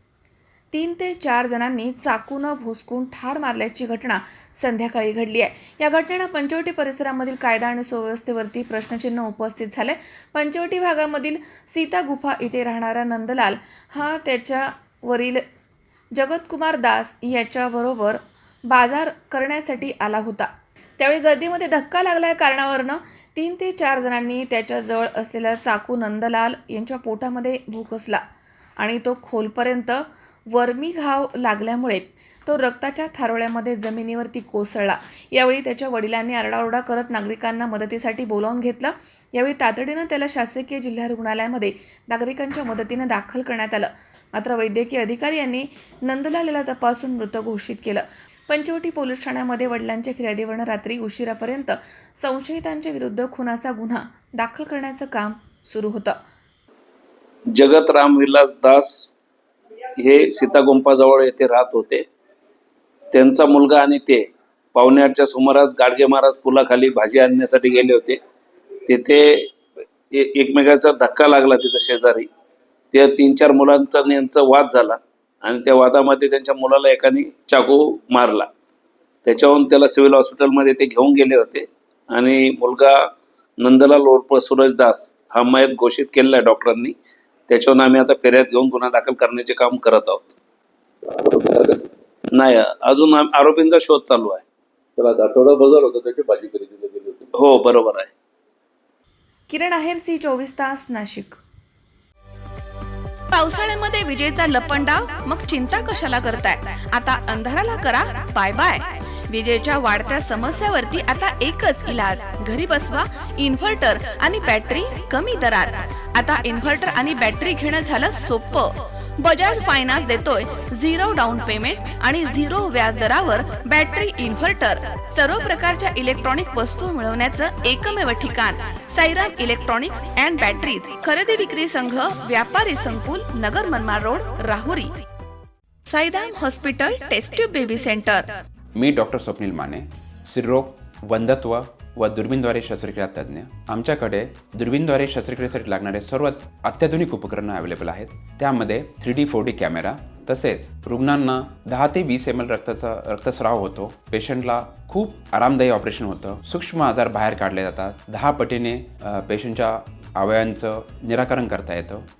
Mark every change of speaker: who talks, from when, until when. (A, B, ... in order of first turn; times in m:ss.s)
0:00.7-0:15.4 A
0:16.1-0:28.2 A
0:28.8-0:56.2 A
0:57.5-0:59.1 B
1:00.0-1:02.0 B
1:03.1-1:08.2 B
1:08.9-1:09.5 B
1:10.1-1:12.3 B
1:12.9-1:18.5 B
1:19.2-1:23.0 B
1:23.6-1:27.0 B
1:27.5-1:30.4 B
1:31.0-1:31.8 C
1:32.3-1:34.4 B
1:35.0-1:37.3 C
1:37.4-1:38.1 B
1:39.5-1:41.4 A
1:43.3-2:14.9 A
2:15.9-2:18.3 A
2:18.8-2:42.0 D